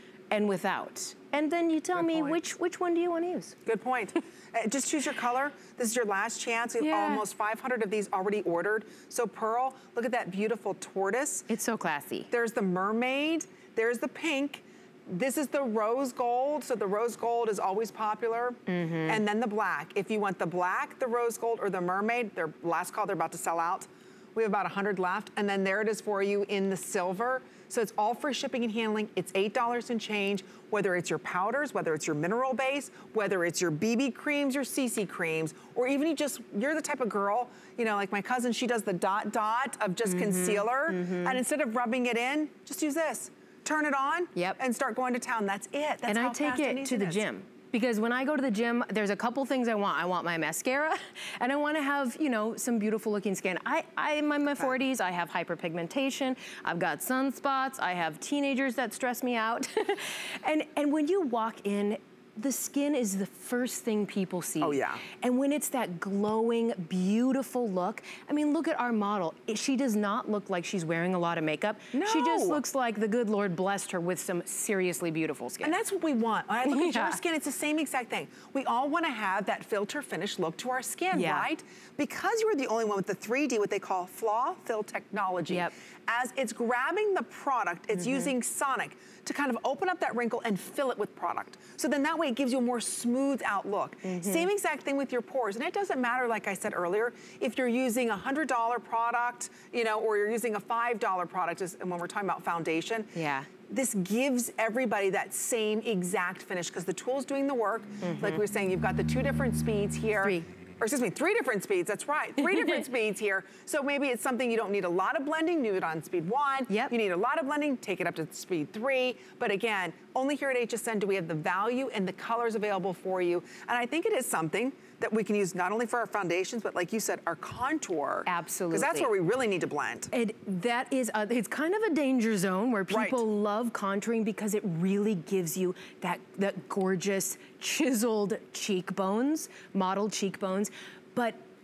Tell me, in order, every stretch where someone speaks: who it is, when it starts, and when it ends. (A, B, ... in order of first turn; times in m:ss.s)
0:00.3-0:03.6 A
0:02.0-0:02.4 B
0:03.7-0:11.5 B
0:06.8-0:07.2 A
0:11.5-0:12.3 A
0:12.3-0:47.2 B
0:18.7-0:19.2 A
0:40.1-0:41.4 A
0:46.1-1:15.8 A
1:04.6-1:05.0 B
1:11.9-1:12.6 B
1:15.6-2:10.1 B
1:16.6-1:17.2 A
1:21.1-1:21.5 A
1:28.0-1:28.3 A
1:34.0-1:34.5 A
1:43.2-1:43.5 A
1:48.0-1:48.4 A
2:08.3-2:09.1 A
2:10.1-2:21.4 A
2:12.9-2:13.2 B